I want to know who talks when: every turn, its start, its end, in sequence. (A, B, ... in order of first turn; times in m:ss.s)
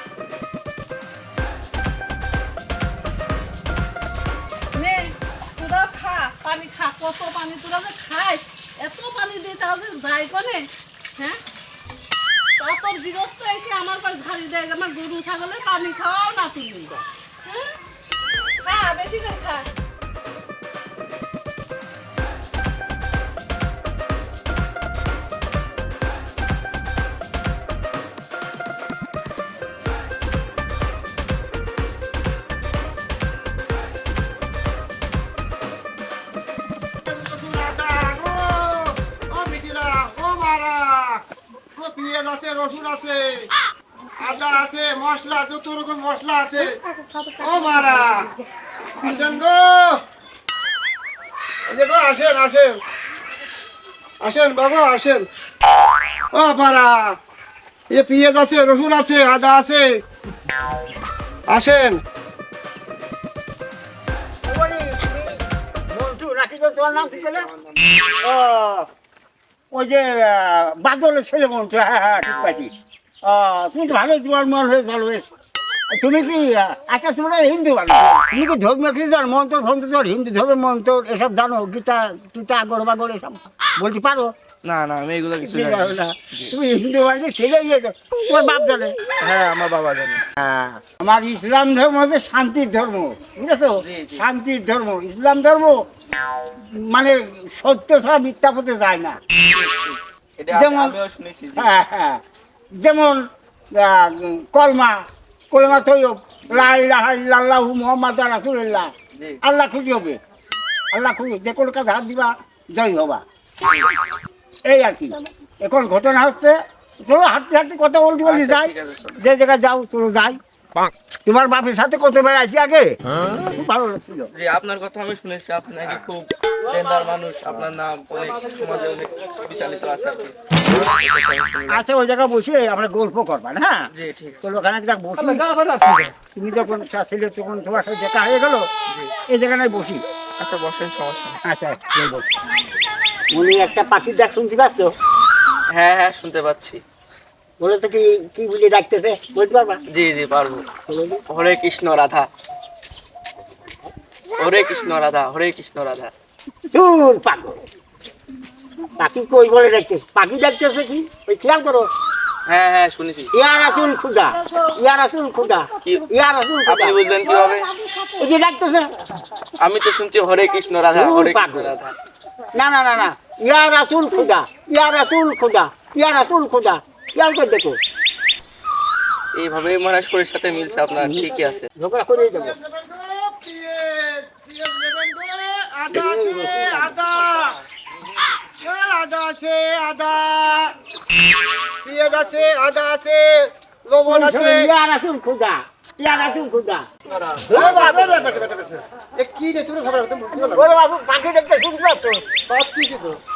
0:04.7-0:11.4 A
0:12.6-0:17.7 A
0:18.6-0:19.7 A
0:37.0-0:43.5 B
0:44.2-0:48.3 B
0:49.0-0:50.0 B
0:51.7-0:52.8 B
0:54.2-0:55.3 B
0:56.3-0:57.2 B
0:57.9-1:00.0 B
1:01.5-1:02.0 B
1:04.4-1:07.5 C
1:07.0-1:08.0 D
1:08.2-1:08.9 C
1:09.7-1:12.7 C
1:13.2-1:15.3 C
1:15.9-1:24.3 C
1:24.6-1:26.6 D
1:25.4-1:29.0 C
1:29.2-1:30.3 D
1:30.4-1:35.8 C
1:33.8-1:34.2 D
1:36.5-1:39.2 C
1:39.5-1:41.8 D
1:40.5-1:41.0 C
1:41.6-1:42.2 C
1:42.8-1:50.2 C
1:49.1-1:49.4 D
1:50.9-1:53.2 C
1:54.7-2:00.4 C
1:58.2-1:59.2 D
2:01.3-2:04.3 C
2:04.3-2:11.8 D
2:11.7-2:13.9 C
2:13.9-2:14.5 D
2:14.4-2:18.7 C
2:18.9-2:19.1 D
2:19.2-2:20.0 C
2:20.4-2:21.4 D
2:21.4-2:22.3 C
2:23.3-2:24.9 C
2:25.7-2:26.8 D
2:27.6-2:29.8 C
2:29.9-2:30.7 D
2:30.9-2:31.2 C
2:31.3-2:32.3 D
2:34.4-2:36.1 D
2:36.7-2:37.6 C
2:38.9-2:41.9 C
2:42.5-2:43.3 D
2:43.3-2:47.2 C
2:46.6-2:47.7 D
2:47.8-2:49.1 C
2:49.6-2:52.0 D
2:50.9-2:51.8 C
2:52.5-2:57.8 C
2:59.3-3:01.7 D
3:01.0-3:02.6 C
3:02.2-3:07.6 B
3:05.9-3:07.0 C
3:08.6-3:10.8 B
3:11.8-3:14.7 B
3:14.1-3:16.9 C
3:17.4-3:20.8 B
3:17.5-3:18.2 C
3:20.3-3:22.2 C
3:22.5-3:23.2 B